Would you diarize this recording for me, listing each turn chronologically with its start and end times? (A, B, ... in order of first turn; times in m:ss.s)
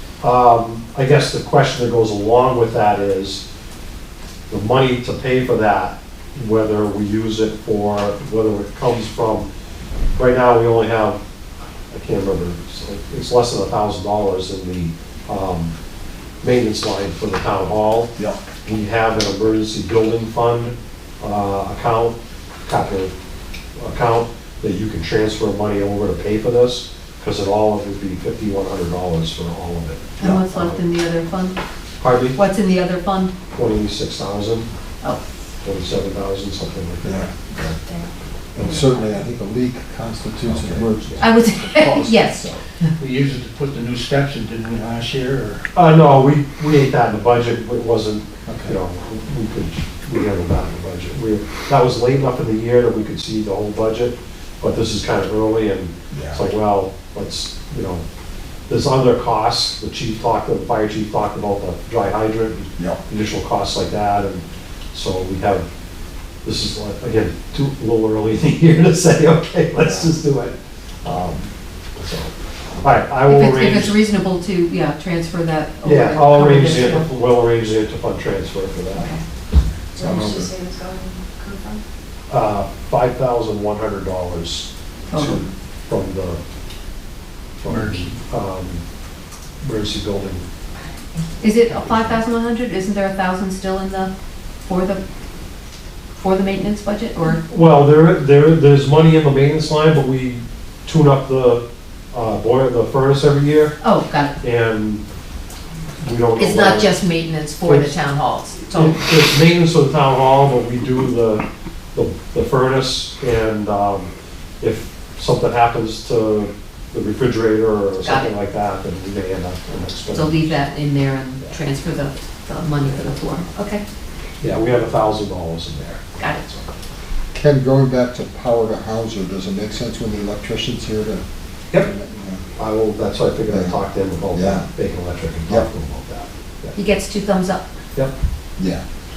0:00.2-0:03.4 A
0:04.5-0:09.5 A
0:10.2-0:11.2 A
0:11.9-0:15.8 A
0:16.4-0:18.1 A
0:18.6-0:23.1 A
0:23.8-0:30.8 A
0:30.2-0:31.6 B
0:32.0-0:32.4 A
0:32.3-0:33.3 B
0:33.5-0:34.7 A
0:35.6-0:37.8 A
0:37.0-0:37.3 C
0:37.7-0:38.1 D
0:38.6-0:42.6 C
0:38.6-0:38.9 B
0:40.5-0:41.2 A
0:41.2-0:42.5 B
0:43.0-0:45.7 E
0:45.7-0:58.0 A
0:48.4-0:48.7 E
0:56.1-0:56.5 C
0:58.7-1:05.7 A
1:06.4-1:14.0 A
1:13.2-1:17.1 B
1:15.8-1:19.1 A
1:18.9-1:19.2 B
1:19.9-1:20.5 C
1:20.0-1:21.8 D
1:22.3-1:26.4 A
1:25.1-1:25.4 B
1:27.6-1:28.8 A
1:27.7-1:28.2 E
1:29.6-1:30.4 A
1:31.4-1:34.1 B
1:31.6-1:32.2 A
1:34.6-1:35.0 B
1:36.2-1:37.4 B
1:37.3-1:43.8 A
1:43.8-1:44.3 B
1:44.4-1:45.0 A
1:46.0-1:46.9 A
1:46.4-1:49.0 B
1:47.6-1:47.9 A
1:48.7-1:54.1 A
1:54.6-2:00.6 A
1:58.0-1:58.3 B
2:00.1-2:03.8 B
2:04.4-2:06.7 A
2:06.2-2:06.5 B
2:07.3-2:12.4 C
2:12.6-2:16.8 A
2:13.5-2:13.8 C
2:14.3-2:14.7 C
2:16.8-2:17.7 B
2:18.6-2:18.8 C